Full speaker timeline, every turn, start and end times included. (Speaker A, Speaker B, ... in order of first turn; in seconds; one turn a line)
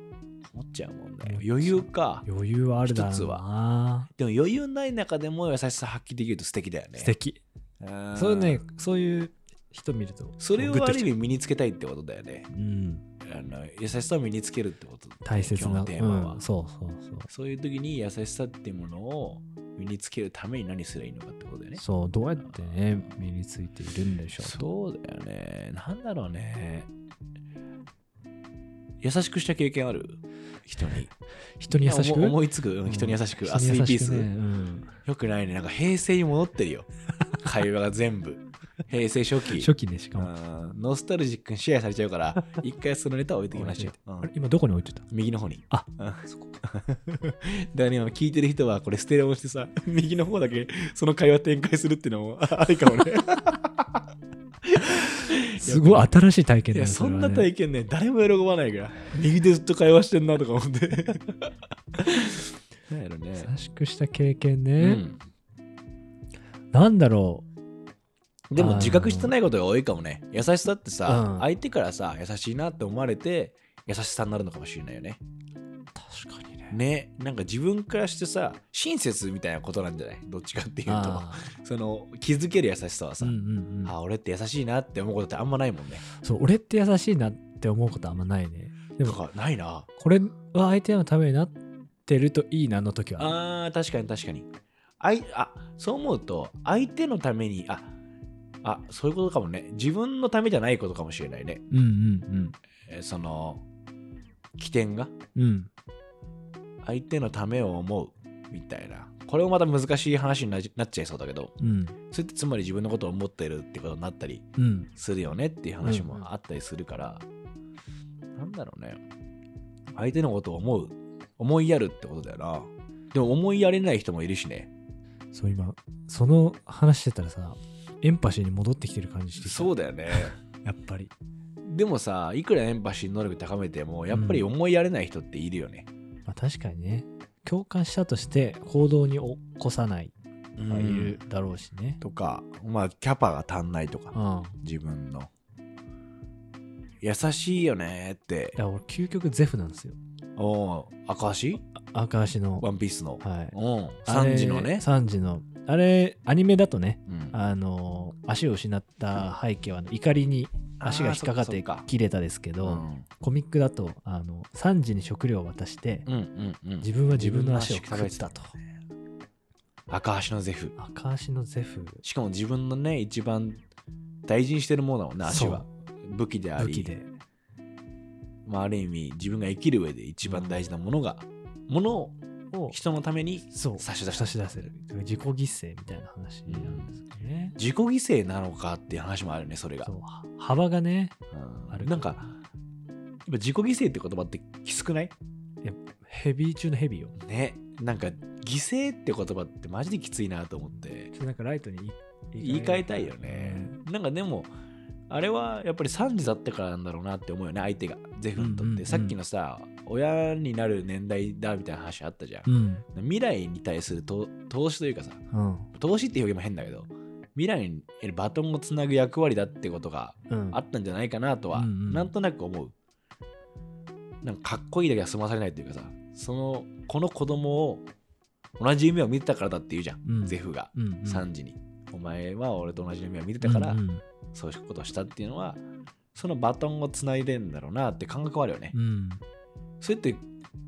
Speaker A: 0.4-2.2
Speaker B: 1.2-4.1
Speaker A: 2.9-3.4
Speaker A: 4.1-7.1
Speaker B: 7.0-7.4
Speaker A: 7.8-8.6
Speaker B: 8.1-11.1
Speaker A: 10.4-12.5
Speaker B: 12.5-13.0
Speaker A: 13.2-16.4
Speaker B: 15.2-17.3
Speaker A: 17.3-21.8
Speaker B: 21.8-24.6
Speaker A: 22.4-23.1
Speaker A: 24.4-26.9
Speaker A: 29.0-31.1
Speaker B: 31.6-35.0
Speaker A: 31.7-34.3
Speaker A: 35.0-44.3
Speaker B: 39.5-40.3
Speaker B: 43.5-45.1
Speaker A: 45.1-54.0
Speaker B: 45.7-46.6
Speaker A: 54.6-56.1
Speaker B: 55.5-57.5
Speaker A: 56.7-63.5
Speaker B: 63.4-65.0
Speaker A: 64.8-65.2
Speaker B: 66.7-67.5
Speaker A: 68.5-75.2
Speaker B: 68.6-69.3
Speaker B: 71.0-71.5
Speaker B: 76.0-76.8
Speaker A: 76.7-86.0
Speaker B: 80.9-81.5
Speaker B: 83.2-83.9
Speaker B: 86.1-89.2
Speaker A: 89.0-89.9
Speaker B: 90.0-91.5
Speaker B: 92.1-93.3
Speaker A: 93.2-94.5
Speaker A: 95.0-97.9
Speaker A: 98.6-101.6
Speaker B: 101.7-102.5
Speaker A: 102.9-103.6
Speaker A: 104.6-105.1
Speaker B: 105.3-105.7
Speaker A: 106.8-111.5
Speaker B: 111.6-112.0
Speaker A: 112.1-117.2
Speaker B: 114.6-114.9
Speaker B: 115.8-116.2
Speaker A: 118.3-119.0
Speaker A: 119.9-124.7
Speaker B: 125.3-131.1
Speaker A: 129.4-130.3
Speaker A: 131.6-135.9
Speaker B: 134.1-134.5
Speaker B: 136.2-140.1
Speaker A: 140.6-141.2
Speaker B: 140.7-142.0
Speaker A: 142.0-145.3
Speaker B: 144.1-144.6
Speaker A: 147.0-148.6
Speaker B: 148.6-150.0
Speaker A: 150.3-151.6
Speaker B: 151.8-152.7
Speaker A: 152.6-154.9
Speaker B: 153.2-166.1
Speaker A: 157.1-157.3
Speaker A: 160.8-161.9
Speaker A: 162.6-163.1
Speaker A: 166.1-168.3
Speaker B: 166.8-168.5
Speaker A: 169.9-170.7
Speaker B: 170.8-172.0
Speaker A: 172.0-173.6
Speaker A: 174.2-176.9
Speaker B: 175.2-175.6
Speaker B: 176.6-177.1
Speaker A: 178.4-182.2
Speaker B: 180.2-180.6
Speaker B: 182.5-182.8
Speaker A: 182.7-184.7
Speaker B: 183.5-187.6
Speaker A: 186.5-186.9
Speaker A: 187.6-189.9
Speaker B: 189.8-191.2
Speaker A: 191.3-192.3
Speaker B: 191.7-192.1
Speaker A: 193.2-195.1
Speaker B: 195.6-197.2
Speaker A: 197.2-201.1
Speaker B: 201.1-203.8
Speaker A: 202.4-204.5
Speaker A: 205.1-215.2
Speaker B: 208.3-209.2
Speaker B: 212.4-212.8
Speaker B: 215.3-215.7
Speaker A: 215.7-222.7
Speaker B: 220.3-220.6
Speaker B: 221.5-222.1
Speaker A: 224.2-227.9
Speaker A: 228.6-233.8
Speaker B: 230.0-231.3
Speaker B: 233.4-234.0
Speaker A: 234.3-235.6
Speaker A: 236.1-238.7
Speaker B: 238.7-239.2
Speaker A: 239.8-240.2